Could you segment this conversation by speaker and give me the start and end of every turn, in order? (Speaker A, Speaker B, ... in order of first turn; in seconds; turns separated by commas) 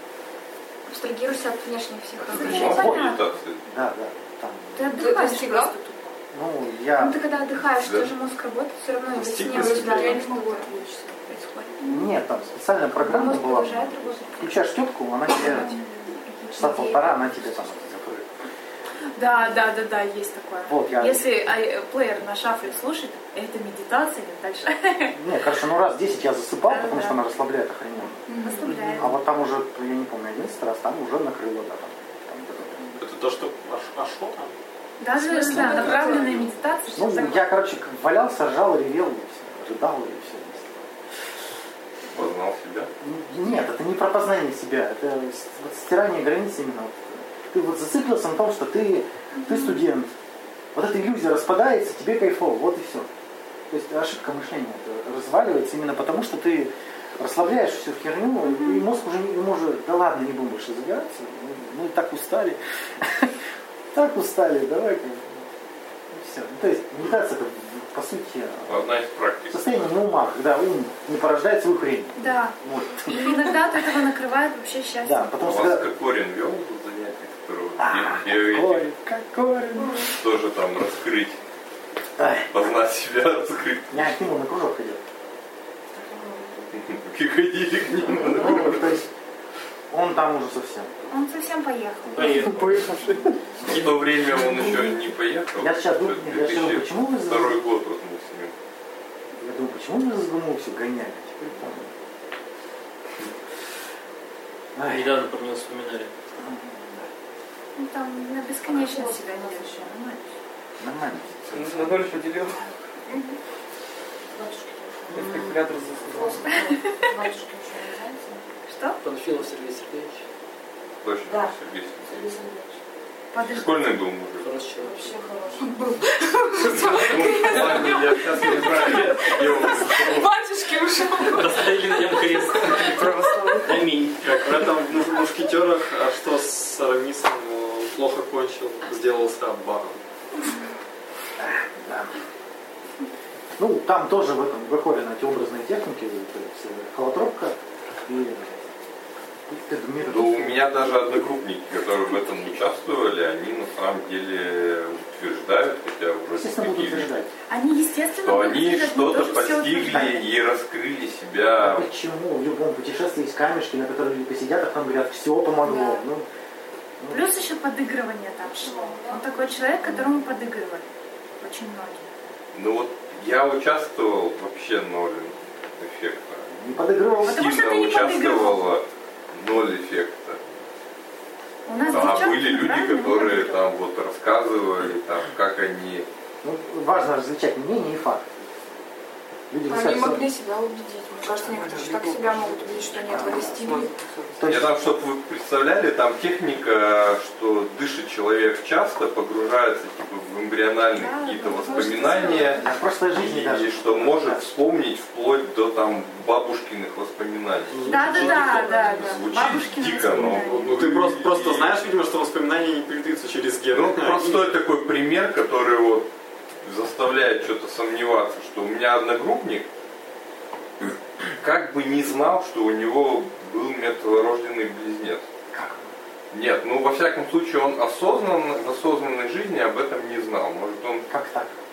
Speaker A: 0.9-3.2, Speaker B: 2.3-3.6, Speaker C: 2.3-2.8, Speaker D: 2.6-4.9, Speaker C: 4.8-6.1, Speaker A: 5.0-5.6, Speaker E: 5.0-5.5, Speaker D: 6.3-7.2, Speaker A: 7.0-10.6, Speaker B: 7.8-8.1, Speaker B: 9.2-10.2, Speaker E: 9.2-11.2, Speaker C: 9.4-10.7, Speaker A: 11.3-11.7, Speaker D: 11.8-15.8, Speaker A: 13.0-14.4, Speaker C: 13.2-14.4, Speaker C: 15.3-17.9, Speaker D: 16.5-18.3, Speaker C: 19.1-25.1, Speaker D: 20.7-21.3, Speaker D: 25.1-28.2, Speaker C: 26.7-27.2, Speaker E: 28.3-29.0, Speaker C: 28.3-29.1, Speaker D: 28.9-33.0, Speaker F: 33.0-34.5, Speaker C: 35.0-37.5, Speaker E: 35.3-36.4, Speaker D: 35.5-36.2, Speaker F: 35.8-36.1, Speaker D: 36.9-40.9, Speaker B: 42.1-42.9, Speaker D: 43.0-50.1, Speaker D: 50.7-53.1, Speaker D: 53.7-63.3, Speaker D: 63.9-65.5, Speaker D: 66.1-68.8, Speaker B: 68.7-69.6, Speaker D: 69.5-73.4, Speaker C: 72.2-75.3, Speaker D: 75.0-75.9, Speaker B: 75.4-78.9, Speaker D: 77.8-80.1, Speaker B: 80.1-81.4, Speaker D: 82.2-82.5, Speaker B: 82.5-84.2, Speaker D: 83.9-85.0, Speaker G: 86.0-86.7, Speaker B: 86.8-88.9, Speaker D: 88.1-89.1, Speaker D: 89.9-91.1, Speaker C: 91.1-92.4, Speaker D: 92.1-92.6, Speaker H: 92.2-93.8, Speaker B: 93.7-98.5, Speaker D: 94.4-94.8, Speaker D: 95.6-97.5, Speaker D: 99.4-101.9, Speaker D: 104.8-105.2, Speaker I: 104.9-106.1, Speaker D: 106.4-107.1, Speaker C: 107.8-110.3, Speaker G: 108.7-109.9, Speaker D: 110.8-111.9, Speaker H: 111.5-112.6, Speaker G: 114.3-118.4, Speaker H: 115.1-116.6, Speaker C: 118.7-119.0, Speaker J: 119.0-120.2, Speaker B: 121.0-122.3, Speaker G: 121.3-122.8, Speaker C: 123.3-123.9, Speaker B: 123.5-124.5, Speaker J: 124.4-125.1, Speaker G: 124.8-125.7, Speaker E: 125.6-131.8, Speaker B: 126.7-130.3, Speaker I: 131.2-134.2, Speaker H: 132.8-133.8, Speaker F: 134.2-140.0, Speaker D: 141.4-142.1, Speaker D: 143.6-148.7, Speaker D: 149.5-151.0, Speaker B: 150.1-157.1, Speaker D: 156.3-157.3, Speaker C: 157.5-160.2, Speaker B: 158.2-161.9, Speaker D: 159.9-160.2, Speaker D: 161.6-166.3, Speaker C: 165.6-166.0, Speaker D: 167.0-167.5, Speaker C: 167.1-172.1, Speaker G: 168.5-169.2, Speaker B: 172.5-176.5, Speaker D: 176.5-177.6, Speaker B: 177.2-180.4, Speaker C: 177.2-178.7, Speaker C: 181.7-183.6, Speaker E: 181.9-182.2, Speaker B: 181.9-186.1, Speaker D: 186.4-188.3, Speaker D: 189.5-190.2, Speaker E: 189.7-193.9, Speaker H: 191.4-194.5, Speaker D: 193.1-193.6, Speaker D: 194.4-194.8, Speaker B: 194.4-202.6, Speaker C: 200.9-202.7, Speaker D: 202.6-204.5, Speaker B: 203.2-211.8, Speaker I: 207.7-209.2, Speaker C: 207.8-210.7, Speaker F: 210.2-214.6, Speaker B: 213.7-216.1, Speaker B: 216.6-219.7, Speaker B: 220.8-225.2, Speaker D: 225.5-225.9, Speaker B: 226.3-231.1, Speaker D: 231.1-231.6